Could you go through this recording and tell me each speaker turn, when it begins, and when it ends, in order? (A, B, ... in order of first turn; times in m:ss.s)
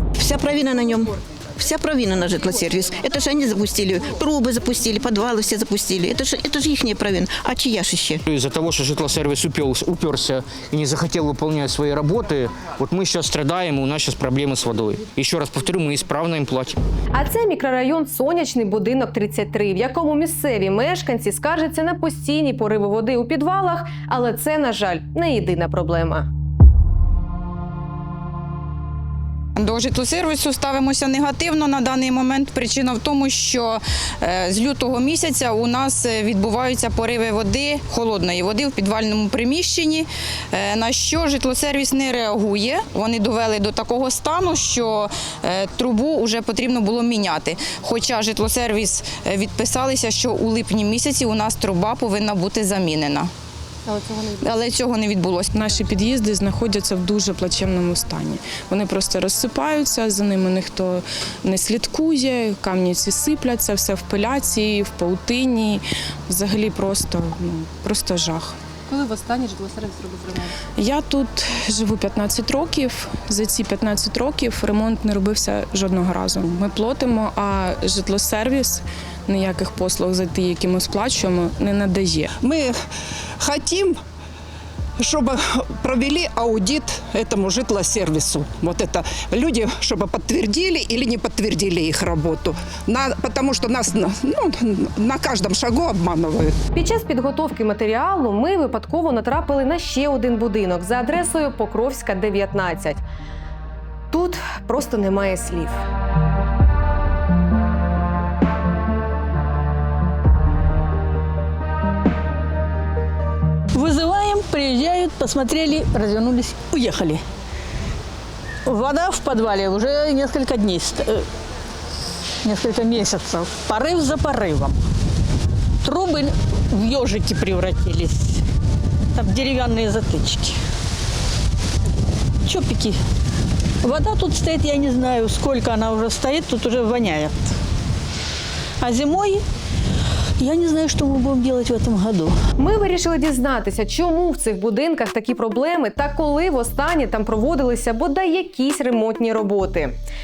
0:00.2-0:08.2 A
0:08.3-0:16.8 B
0:17.1-0:26.3 C
0:29.6-0:53.3 D
0:54.4-0:55.6 D
0:55.5-1:08.6 E
1:08.9-1:10.6 C
1:10.8-1:22.3 E
1:22.4-1:22.7 F
1:23.4-1:24.0 F
1:25.0-1:36.6 F
1:36.7-1:43.0 C
1:44.1-1:45.8 C
1:53.7-1:57.2 G
1:58.6-2:01.2 G
2:02.4-2:04.8 G
2:05.8-2:08.4 G
2:09.1-2:10.6 G
2:12.4-2:13.0 G
2:13.8-2:17.4 G
2:18.8-2:19.4 G
2:20.4-2:22.3 G
2:22.6-2:30.0 C